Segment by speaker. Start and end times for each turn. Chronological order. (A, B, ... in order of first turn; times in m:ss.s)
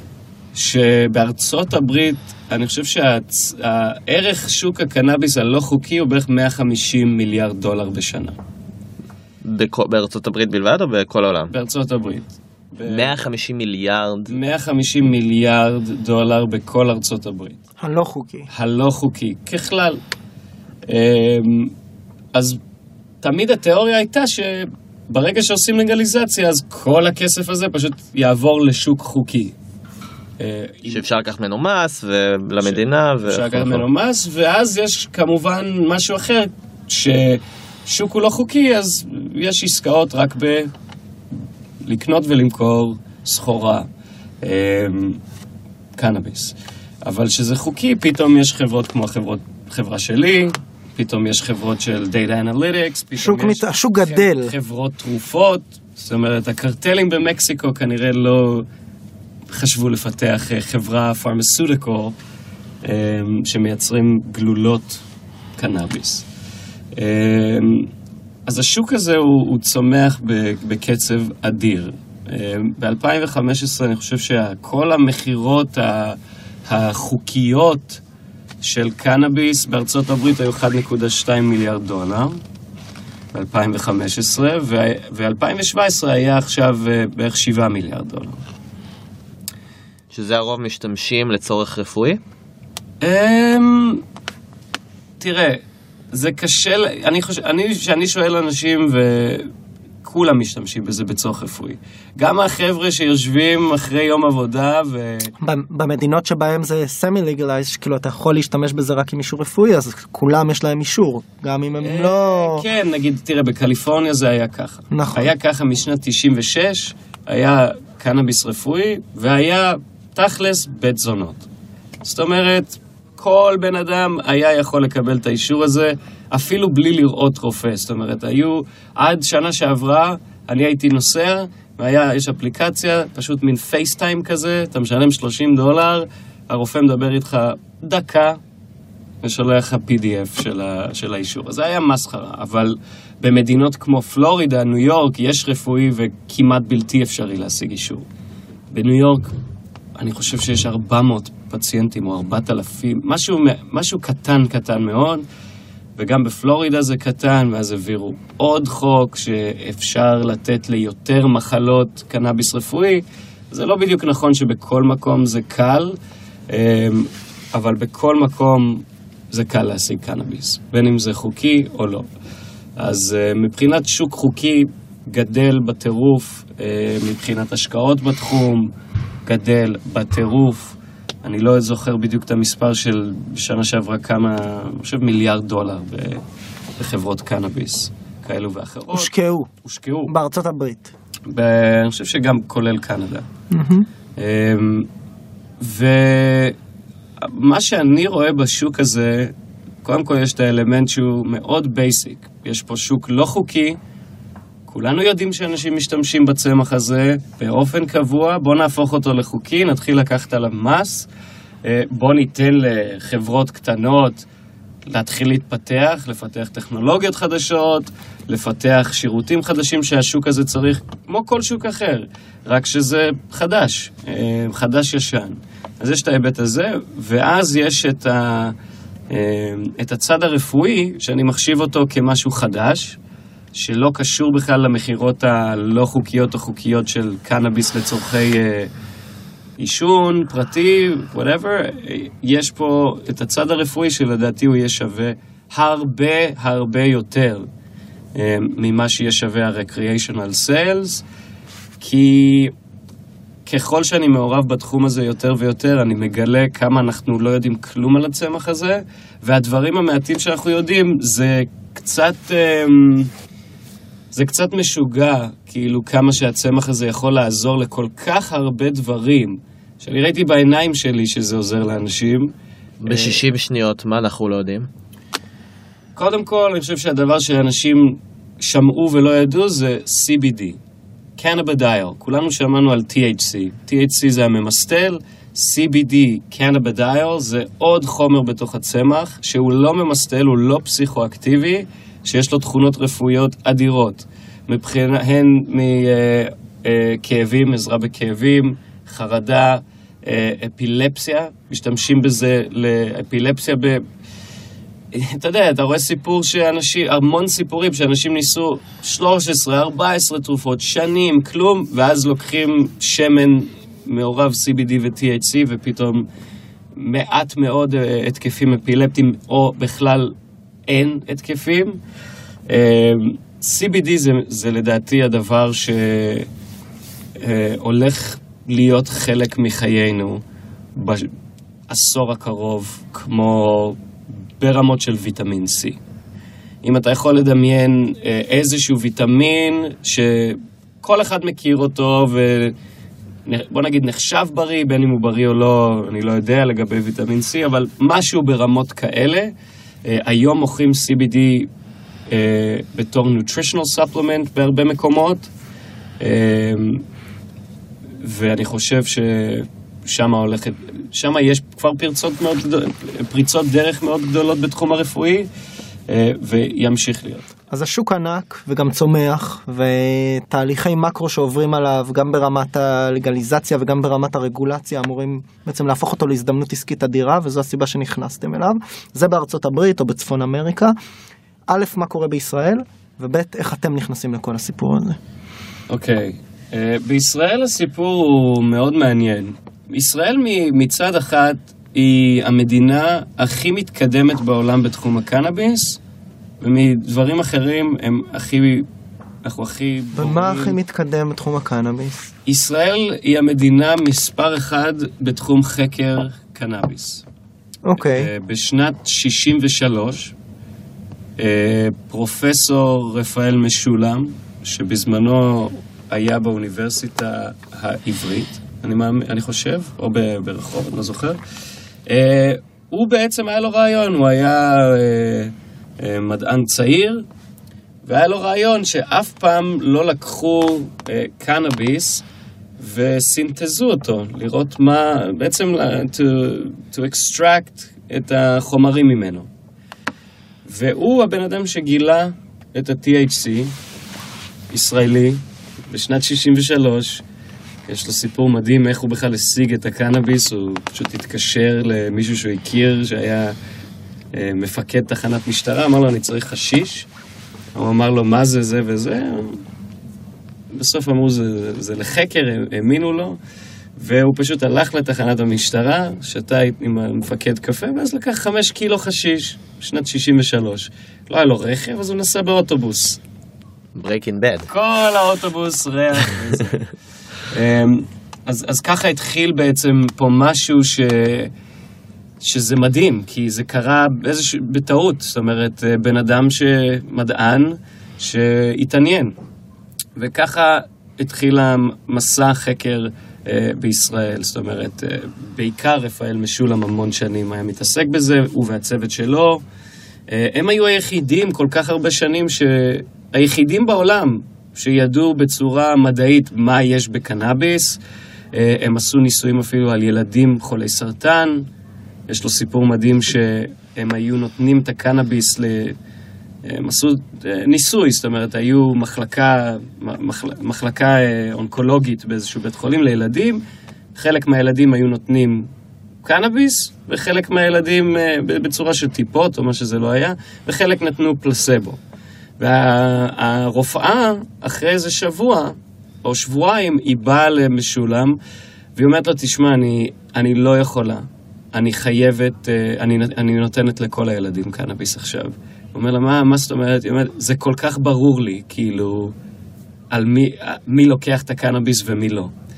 0:00.5-0:08.4 A
0:09.4-0:11.5 B
0:11.5-0:13.2 A
0:12.8-0:14.3 B
0:14.3-0:17.6 A
0:17.8-0:18.5 C
0:18.5-0:20.0 A
0:20.9-0:21.7 A
0:22.3-0:22.6 A
0:23.2-0:29.5 A
0:30.4-0:31.1 A
0:30.9-0:33.8 B
0:32.6-0:40.7 A
0:41.8-0:43.9 A
0:44.4-0:45.2 A
0:46.0-0:58.7 A
0:53.2-0:54.5 C
0:59.5-1:02.1 A
1:02.8-1:05.0 A
1:05.6-1:06.2 A
1:07.0-1:07.9 A
1:08.4-1:18.0 A
1:18.6-1:22.4 A
1:23.3-1:28.4 A
1:30.1-1:32.2 B
1:33.0-1:34.0 A
1:35.2-1:35.6 A
1:36.1-1:39.5 A
1:40.0-1:45.3 A
1:45.4-1:52.6 C
1:51.8-2:01.4 A
1:54.9-1:55.3 C
2:02.0-2:18.4 A
2:19.2-2:28.0 A
2:28.7-2:29.3 A
2:30.0-2:35.2 A
2:36.0-2:46.0 A
2:46.5-2:52.0 A
2:52.8-2:58.7 A
2:59.2-3:06.2 A
3:06.8-3:09.1 A
3:08.9-3:09.5 C
3:09.6-3:10.1 A
3:10.1-3:10.9 C
3:11.3-3:13.2 A
3:13.5-3:13.9 C
3:14.2-3:14.9 A
3:15.6-3:16.6 A
3:17.2-3:19.3 A
3:19.8-3:23.8 A
3:24.7-3:31.1 A
3:31.6-3:34.2 A
3:34.9-3:48.6 A
3:49.1-3:53.0 A
3:53.5-3:58.7 A
3:59.6-4:07.4 A
4:08.1-4:11.0 A
4:11.8-4:12.5 A
4:13.4-4:23.1 A
4:24.1-4:32.3 A
4:32.8-4:34.7 B
4:32.8-4:33.2 A
4:36.0-4:40.6 A
4:41.2-5:03.8 A
5:04.9-5:16.1 A
5:16.8-5:20.1 A
5:20.7-5:21.8 A
5:22.5-5:26.3 A
5:27.2-5:30.2 A
5:30.7-5:31.1 A
5:31.7-5:33.8 A
5:34.4-5:35.8 A
5:36.6-5:42.5 A
5:43.2-5:49.3 A
5:49.8-5:51.5 A
5:52.1-5:55.3 A
5:56.0-5:56.8 A
5:58.0-6:05.3 A
6:05.9-6:07.2 A
6:07.5-6:20.7 C
6:21.5-6:25.0 C
6:25.7-6:35.8 A
6:36.4-6:38.7 A
6:39.2-6:40.6 A
6:39.9-6:42.1 C
6:42.2-6:47.0 A
6:47.6-6:48.1 C
6:47.9-6:50.1 A
6:51.2-7:01.2 A
7:01.8-7:07.0 A
7:07.8-7:12.0 A
7:12.6-7:19.3 A
7:20.4-7:23.5 A
7:24.5-7:27.0 A
7:27.7-7:33.4 A
7:34.1-7:36.9 A
7:37.5-7:39.4 A
7:40.5-7:43.2 A
7:43.8-7:53.0 A
7:53.7-7:54.5 B
7:54.5-7:56.7 A
7:57.3-8:01.3 A
8:02.2-8:09.1 A
8:10.0-8:19.4 A
8:20.1-8:27.8 A
8:28.3-8:31.4 A
8:32.1-8:35.8 A
8:36.4-8:43.4 A
8:44.0-8:45.5 A
8:46.0-8:51.8 A
8:52.4-8:58.2 A
8:58.8-9:09.1 A
9:09.9-9:12.3 A